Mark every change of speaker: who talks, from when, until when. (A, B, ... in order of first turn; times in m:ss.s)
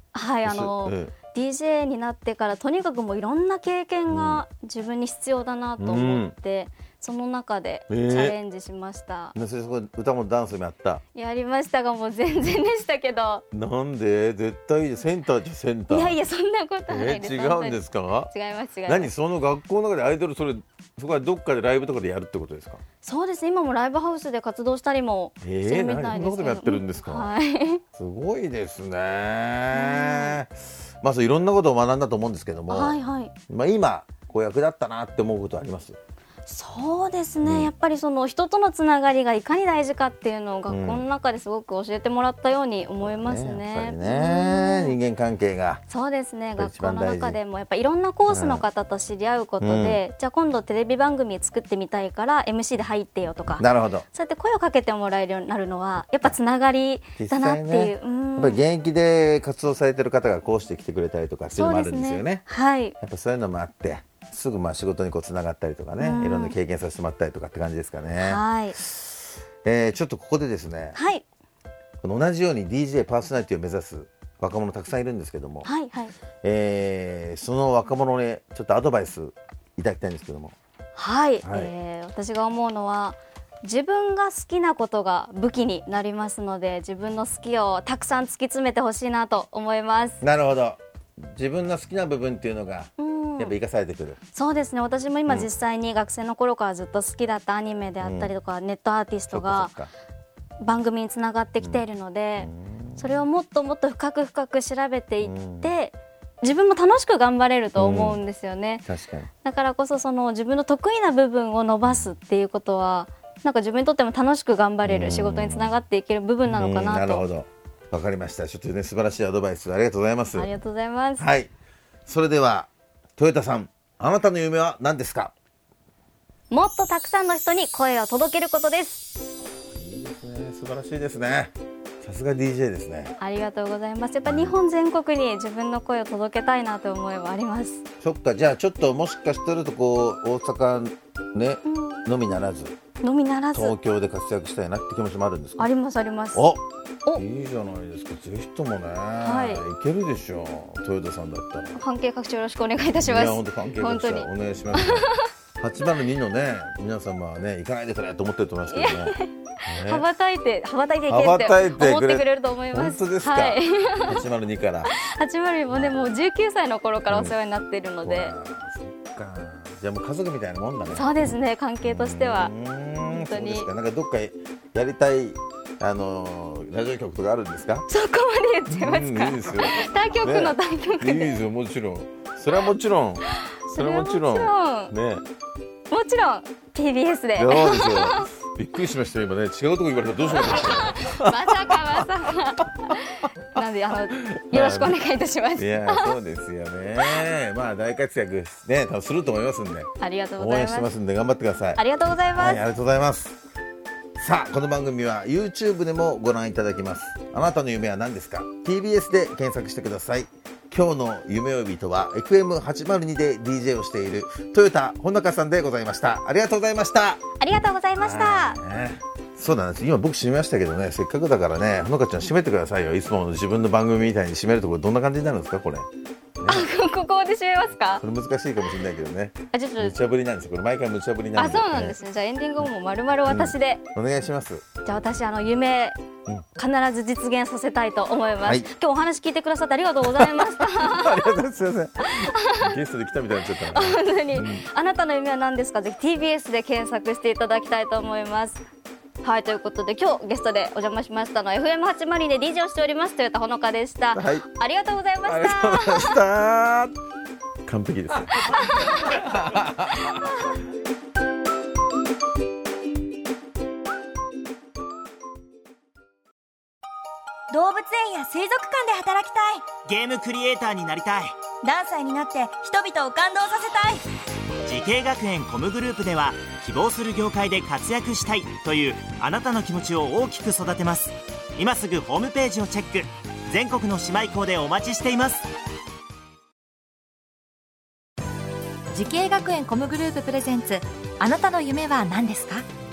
0:00.1-0:09.3 A
0:00.4-0:01.1 B
0:04.1-0:04.4 B
0:05.8-0:06.4 B
0:07.9-0:08.4 B
0:09.3-0:11.0 B
0:11.1-0:13.4 A
0:13.5-0:16.2 B
0:15.9-0:19.1 A
0:16.9-0:18.3 B
0:18.8-0:22.8 B
0:23.0-0:27.8 A
0:25.4-0:27.3 B
0:27.9-0:33.0 B
0:29.7-0:30.4 A
0:32.7-0:33.3 A
0:33.5-0:36.0 B
0:36.4-0:45.0 A
0:37.4-0:37.7 B
0:40.7-0:41.0 B
0:43.0-0:45.8 B
0:45.9-0:58.6 A
0:46.5-0:47.4 B
0:48.3-0:48.6 B
0:49.6-0:50.0 B
0:53.6-0:54.0 B
0:57.2-1:02.4 B
1:01.5-1:03.0 A
1:03.0-1:09.1 B
1:06.0-1:06.5 A
1:08.2-1:08.8 A
1:09.6-1:11.0 B
1:10.9-1:11.2 A
1:12.0-1:15.7 B
1:15.6-1:16.1 A
1:16.4-1:20.6 B
1:20.9-1:30.2 A
1:21.4-1:21.7 B
1:30.2-1:34.2 B
1:33.0-1:33.6 A
1:34.3-1:39.7 A
1:38.0-1:38.3 B
1:39.3-1:39.9 B
1:40.6-1:48.8 A
1:41.6-1:41.8 B
1:42.4-1:43.2 B
1:45.2-1:45.7 B
1:47.8-1:48.2 B
1:48.8-1:49.3 B
1:49.4-1:57.2 A
1:54.8-1:55.8 B
1:56.4-2:00.5 B
2:00.3-2:01.3 A
2:01.2-2:01.5 B
2:02.0-2:05.3 B
2:06.5-2:09.1 A
2:09.6-2:13.2 B
2:13.2-2:17.8 A
2:14.2-2:14.6 B
2:18.0-2:22.8 B
2:21.6-2:22.1 A
2:23.0-2:23.7 A
2:23.5-2:25.7 B
2:25.6-2:26.5 A
2:26.3-2:26.6 B
2:27.1-2:31.8 B
2:29.2-2:29.6 A
2:31.7-2:35.3 A
2:33.0-2:40.0 B
2:38.7-2:44.2 A
2:41.1-2:44.9 B
2:44.8-2:48.3 A
2:45.7-2:46.0 B
2:47.1-2:47.3 B
2:48.0-2:51.1 B
2:50.9-2:53.7 A
2:51.8-2:57.8 B
2:57.9-3:01.3 A
2:58.7-3:05.2 B
3:03.3-3:04.9 A
3:05.9-3:08.3 A
3:07.4-3:12.0 B
3:10.4-3:16.1 A
3:14.2-3:15.0 B
3:15.6-3:21.8 B
3:17.0-3:17.2 A
3:20.0-3:20.9 A
3:21.8-3:22.6 A
3:22.4-3:23.4 B
3:24.2-3:37.2 B
3:37.4-3:38.6 A
3:37.9-3:45.9 B
3:46.4-3:46.7 B
3:46.4-3:48.0 A
3:48.0-3:52.0 B
3:49.5-3:50.0 A
3:51.3-3:53.8 A
3:53.3-3:54.6 B
3:54.8-3:56.0 A
3:56.5-4:01.3 A
4:00.0-4:04.6 B
4:02.0-4:02.8 A
4:03.6-4:08.6 A
4:09.2-4:16.2 A
4:14.1-4:14.4 B
4:15.2-4:16.9 B
4:17.6-4:20.2 B
4:18.3-4:19.4 A
4:20.0-4:20.5 A
4:27.5-4:29.7 C
4:29.8-4:31.4 D
4:31.6-4:34.0 C
4:34.6-4:45.4 D
4:48.9-4:52.7 E